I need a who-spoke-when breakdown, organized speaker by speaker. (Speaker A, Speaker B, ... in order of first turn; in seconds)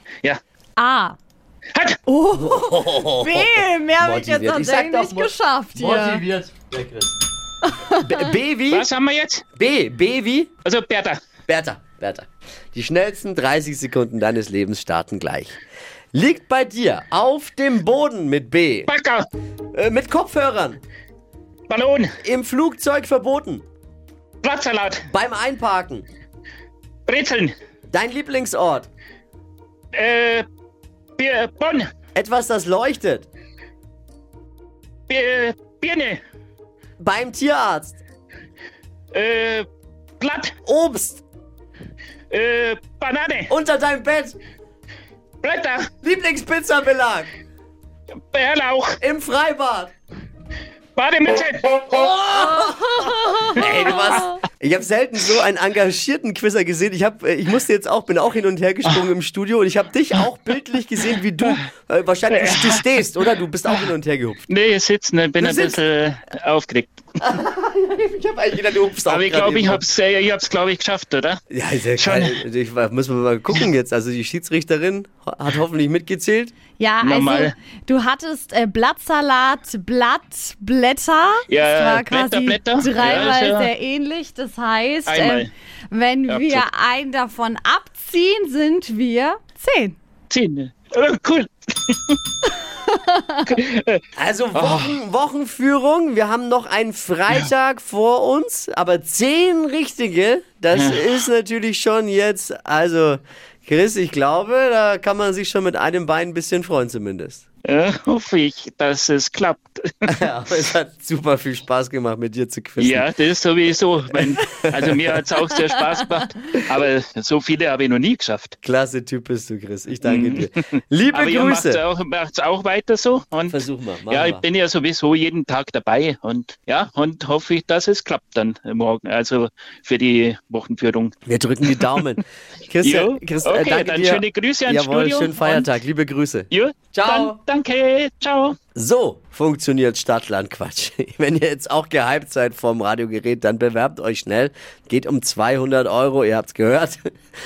Speaker A: 0.8-1.2, 2.1-6.2, 7.8-8.3, 52.7-53.6, 76.8-90.0, 92.9-93.2
Speaker B: 2.3-7.2, 8.0-8.9, 9.6-10.5, 11.5-15.6, 16.1-18.9, 19.7-20.8, 22.2-23.6, 25.1-26.1, 27.9-28.9, 32.1-33.3, 37.0-38.0, 40.6-41.2, 43.5-44.4, 46.0-47.3, 49.0-49.9, 51.9-64.5, 65.4-65.8, 67.2-69.8, 71.5-76.5, 94.2-107.4, 110.1-113.1, 114.2-114.9, 118.6-121.8, 123.5-124.5, 131.3-137.4, 138.8-147.0
Speaker C: 8.7-9.4, 10.7-11.2, 18.9-19.3, 21.7-22.1, 24.4-25.0, 27.1-27.5, 29.9-30.4, 31.2-31.9, 35.1-36.2, 39.1-39.7, 40.2-40.5, 42.3-43.5, 45.4-45.9, 48.3-49.0, 51.0-52.3, 53.6-54.2, 62.3-62.9, 64.5-67.0, 69.1-71.4, 72.0-72.4, 77.0-77.5, 81.5-83.7, 85.1-85.5, 86.3-86.7, 90.3-92.2, 93.5-94.0, 94.5-95.0, 100.7-101.0, 107.7-110.1, 112.8-118.5, 120.0-120.5, 121.1-131.1, 132.8-135.7, 136.5-138.6